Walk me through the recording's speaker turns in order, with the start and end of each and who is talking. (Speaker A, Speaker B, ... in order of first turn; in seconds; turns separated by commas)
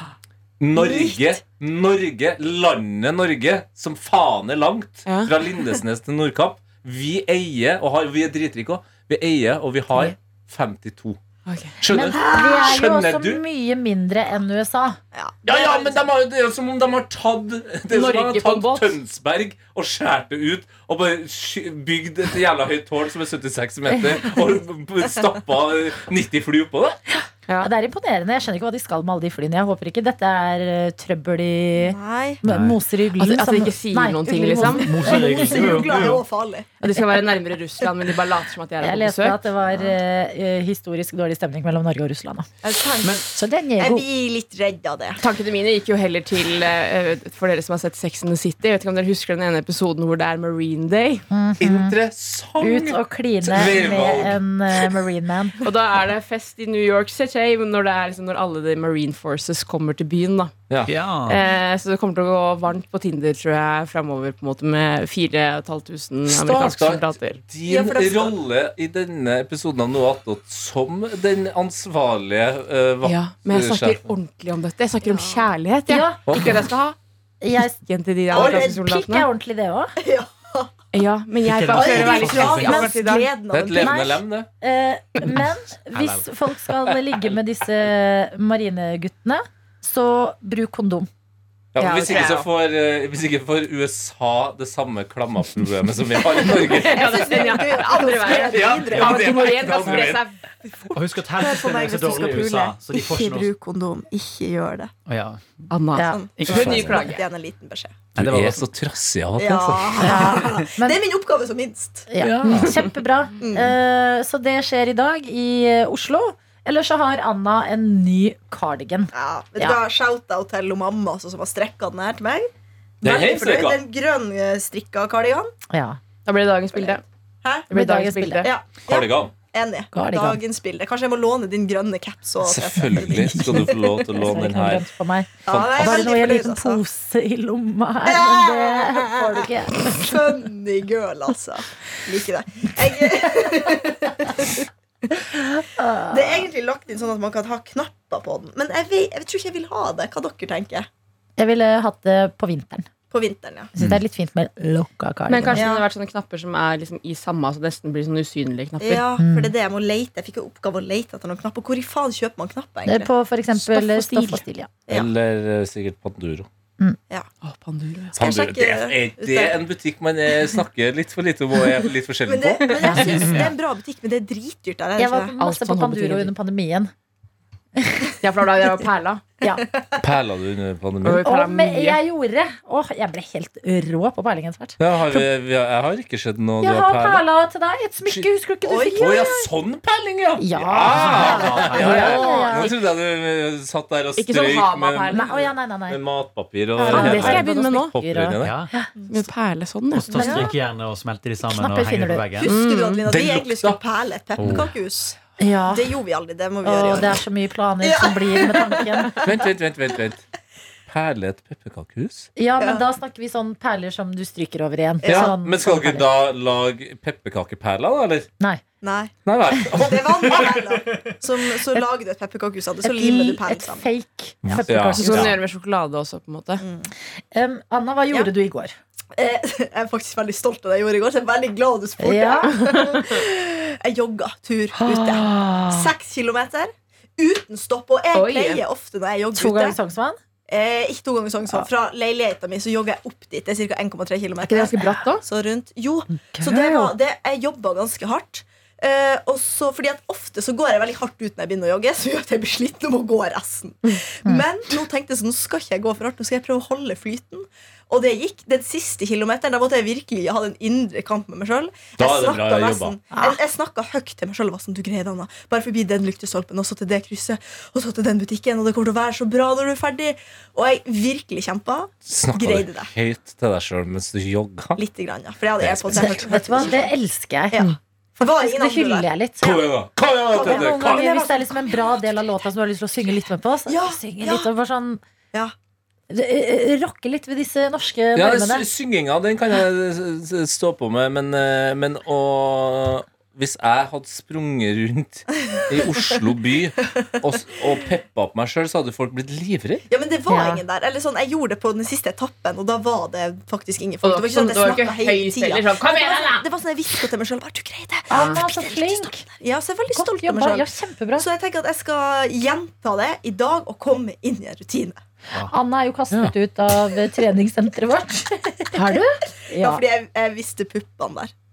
Speaker A: 0.6-11.2, Speaker B: 0.8-1.4, Speaker C: 5.1-5.3, Speaker C: 11.5-11.8, Speaker A: 11.8-13.4, Speaker D: 11.9-15.0, Speaker B: 12.1-12.8, Speaker B: 15.1-16.0, Speaker A: 15.5-27.0, Speaker C: 17.9-18.9, Speaker D: 27.6-35.6, Speaker B: 31.9-32.4, Speaker E: 32.5-32.8, Speaker C: 33.2-34.9, Speaker E: 34.7-36.2, Speaker B: 35.0-36.7, Speaker C: 36.8-39.4, Speaker D: 38.8-42.5, Speaker B: 39.7-40.0, Speaker B: 42.6-45.2, Speaker D: 43.3-44.1, Speaker C: 45.2-51.3, Speaker D: 51.3-52.0, Speaker A: 51.6-54.4, Speaker D: 52.6-55.6, Speaker C: 55.6-60.5, Speaker E: 60.9-61.4, Speaker C: 61.3-67.4, Speaker A: 66.3-74.1, Speaker B: 67.7-68.4, Speaker C: 73.0-77.0, Speaker B: 75.0-75.5, Speaker D: 75.9-76.4, Speaker A: 76.3-76.6, Speaker D: 77.4-77.8, Speaker C: 77.7-79.3, Speaker D: 78.3-80.0, Speaker B: 78.3-78.8, Speaker B: 80.0-80.7, Speaker C: 80.9-83.3, Speaker E: 81.5-82.9, Speaker B: 81.7-83.9, Speaker A: 83.5-84.5, Speaker D: 83.7-91.1, Speaker E: 85.9-87.2, Speaker A: 91.7-97.4, Speaker C: 91.8-92.5, Speaker C: 96.3-100.3, Speaker B: 96.6-104.9, Speaker A: 98.3-100.2, Speaker E: 100.9-103.5, Speaker E: 105.1-105.7, Speaker C: 105.7-107.2, Speaker D: 106.0-106.2, Speaker B: 106.1-108.0, Speaker E: 106.4-107.1, Speaker E: 108.2-108.7, Speaker A: 108.2-110.4, Speaker B: 109.4-112.1, Speaker D: 110.0-111.0, Speaker D: 112.1-119.8, Speaker A: 112.2-112.6, Speaker B: 113.4-113.8, Speaker B: 119.1-122.5, Speaker A: 123.0-123.8, Speaker B: 123.0-125.5, Speaker D: 125.7-126.0, Speaker C: 126.3-127.0, Speaker B: 126.8-127.7, Speaker C: 127.7-128.5, Speaker D: 127.7-128.5, Speaker B: 128.4-134.1, Speaker A: 128.9-129.3, Speaker D: 129.9-130.4, Speaker A: 132.4-134.9, Speaker D: 133.3-140.4, Speaker B: 135.5-136.8, Speaker A: 135.5-136.2, Speaker B: 138.1-144.7, Speaker D: 145.7-146.5, Speaker B: 146.1-150.9, Speaker D: 151.4-152.9, Speaker B: 153.1-153.7, Speaker D: 153.7-155.7, Speaker C: 155.3-159.0, Speaker B: 155.5-155.8, Speaker B: 158.8-163.1, Speaker D: 159.2-159.5, Speaker D: 162.9-164.7, Speaker C: 163.6-164.4, Speaker A: 164.9-166.5, Speaker C: 167.4-168.1, Speaker B: 168.1-169.6, Speaker A: 168.2-173.4, Speaker B: 172.3-175.3, Speaker C: 172.7-173.0, Speaker D: 172.8-173.4, Speaker E: 173.1-173.5, Speaker D: 175.0-176.9, Speaker C: 175.4-176.3, Speaker D: 177.8-178.1, Speaker C: 178.2-179.3, Speaker A: 180.0-181.2, Speaker C: 181.0-182.0, Speaker D: 181.2-185.3, Speaker A: 184.8-187.2, Speaker D: 186.6-189.5, Speaker B: 188.6-189.3, Speaker A: 189.0-198.6, Speaker D: 190.4-192.7, Speaker E: 190.9-192.2, Speaker C: 191.8-192.7, Speaker C: 194.2-195.3, Speaker D: 195.1-196.0, Speaker B: 196.8-197.3, Speaker C: 196.8-197.9, Speaker D: 196.8-198.9, Speaker E: 198.4-198.7, Speaker C: 199.1-200.2, Speaker E: 199.9-202.6, Speaker D: 200.1-200.5, Speaker B: 200.2-200.5, Speaker D: 201.4-202.2, Speaker B: 202.4-205.2, Speaker C: 202.5-203.0, Speaker A: 203.1-203.8, Speaker E: 204.4-204.7, Speaker A: 204.4-204.7, Speaker D: 205.4-206.0, Speaker B: 205.7-207.2, Speaker D: 206.6-209.2, Speaker B: 207.8-209.4, Speaker A: 209.2-210.2, Speaker A: 210.9-212.3, Speaker D: 212.4-216.1, Speaker B: 215.0-215.3, Speaker A: 215.1-218.3, Speaker B: 218.8-219.1, Speaker A: 219.3-220.5, Speaker B: 219.7-223.8, Speaker E: 220.5-221.2, Speaker D: 222.8-225.3, Speaker A: 224.4-225.3, Speaker C: 225.0-226.6, Speaker B: 226.6-226.9, Speaker D: 227.3-228.8, Speaker B: 229.2-239.8, Speaker D: 232.0-232.9, Speaker D: 234.8-235.9, Speaker C: 238.1-238.6, Speaker D: 239.3-240.2, Speaker B: 240.5-272.9, Speaker C: 244.4-245.2, Speaker D: 246.1-246.9, Speaker A: 262.0-263.0, Speaker D: 263.1-263.4, Speaker A: 272.1-274.8, Speaker B: 274.8-276.9, Speaker A: 275.6-276.3, Speaker D: 275.9-277.7, Speaker B: 277.5-279.1, Speaker D: 278.2-279.6, Speaker A: 279.4-281.0, Speaker B: 280.3-282.1, Speaker D: 280.4-285.0, Speaker B: 283.7-284.5, Speaker D: 286.1-288.7, Speaker A: 288.2-299.9, Speaker B: 299.9-315.0, Speaker D: 300.3-300.6, Speaker C: 304.0-306.5, Speaker D: 308.1-309.2, Speaker C: 308.1-308.4, Speaker D: 309.9-311.3, Speaker D: 315.5-319.8, Speaker C: 318.8-319.1, Speaker B: 319.5-321.3